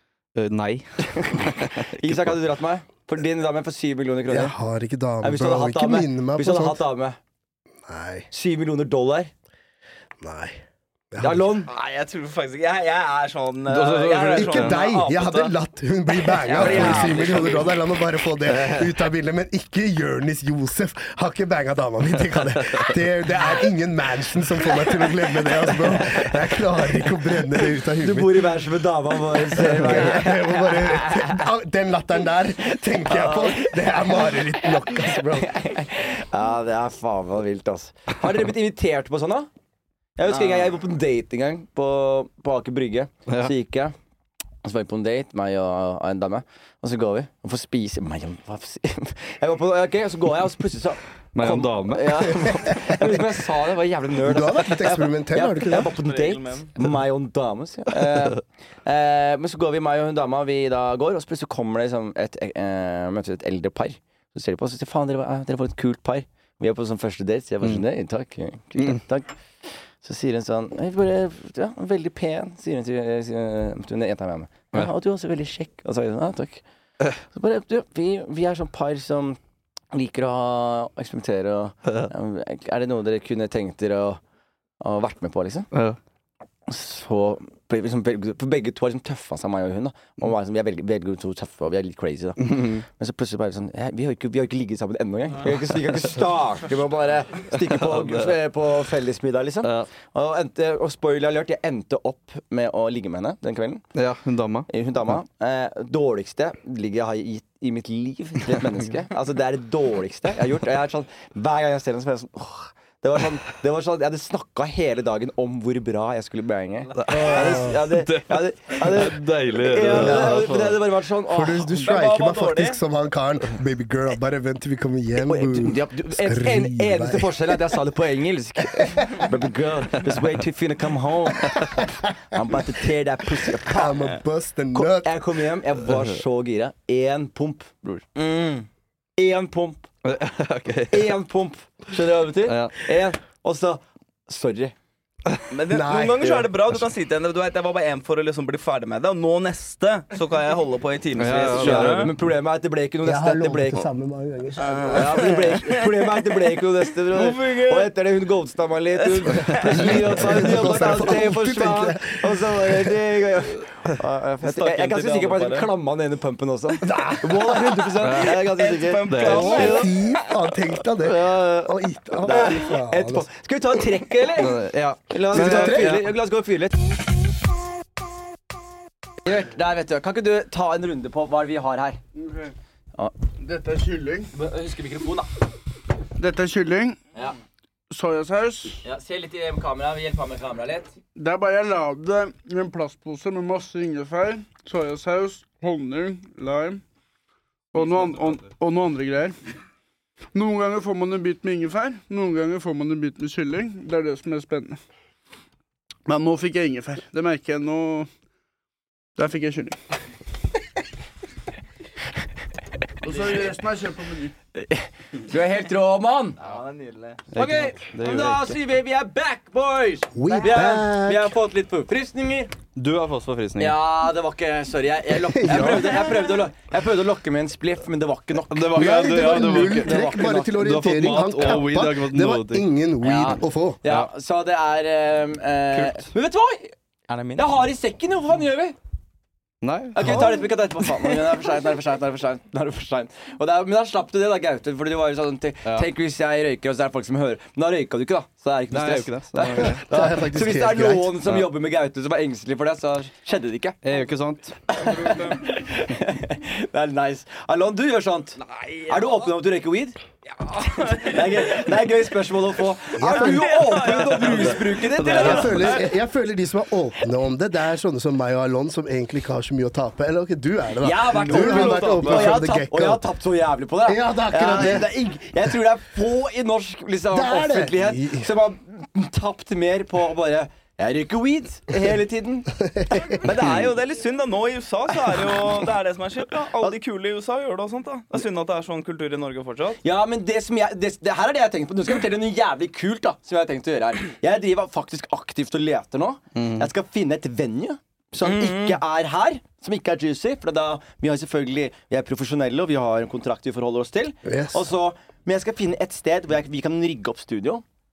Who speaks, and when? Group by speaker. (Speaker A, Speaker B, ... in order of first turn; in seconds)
Speaker A: 0.3-2.4, 13.7-14.8, 51.3-52.3, 85.7-86.0, 92.4-92.8, 103.9-104.7, 117.0-120.8, 140.0-141.1, 142.5-142.8, 151.2-152.1, 168.0-168.3, 169.1-169.7, 174.3-176.1, 217.3-218.6, 222.8-223.8, 228.5-232.7, 235.7-236.1, 239.6-240.3, 248.7-249.8, 253.8-254.6, 265.1-265.4, 296.3-296.7
Speaker B: 1.1-1.4, 2.0-4.5, 5.2-7.2, 8.3-9.3, 11.2-11.7, 16.5-17.6, 28.0-31.4, 33.1-34.3, 35.3-39.5, 40.2-43.9, 44.6-69.3, 70.0-76.6, 77.3-79.4, 79.9-84.2, 84.8-85.7, 86.7-103.8, 104.7-121.7, 125.2-133.9, 134.7-138.0, 139.2-139.9, 140.9-144.7, 151.5-153.8, 154.9-169.9, 171.0-174.6, 175.1-176.8, 179.2-182.0, 184.3-185.3, 188.8-190.9, 214.6-216.4, 217.3-222.5, 223.6-230.6, 233.0-236.7, 237.3-238.8, 239.9-253.8, 254.7-260.0, 261.0-265.7, 270.8-282.5, 283.2-283.7, 289.8-307.6
Speaker C: 4.3-6.8, 7.9-8.3, 10.2-10.6, 11.1-11.5, 14.3-28.6, 29.5-35.5, 54.2-55.9, 117.1-117.8, 119.8-120.5, 121.3-127.6, 128.8-129.2, 133.7-135.2, 145.7-146.8, 153.0-155.3, 159.7-162.9, 166.8-168.0, 169.2-173.3, 175.3-176.0, 220.1-221.3, 225.2-226.2, 228.7-233.8, 249.9-251.2, 263.0-263.9, 265.1-273.1, 273.8-275.5, 277.1-278.3, 282.6-283.2, 304.2-304.6
Speaker D: 11.7-15.5, 16.4-17.6, 40.3-40.7, 55.9-56.7, 121.7-122.8, 138.1-138.7, 145.5-152.1, 154.6-156.2, 157.1-157.9, 159.0-160.0, 164.4-165.7, 168.2-169.9, 216.4-217.2, 237.1-237.4, 258.4-259.3, 260.4-261.7, 263.0-265.8, 271.2-272.2, 283.2-289.8, 298.2-298.8
Speaker E: 182.2-182.5, 183.4-184.3, 186.2-187.0, 187.9-188.8, 191.2-196.8, 197.7-199.3, 200.3-204.8, 206.1-208.1, 209.2-209.8, 213.0-214.3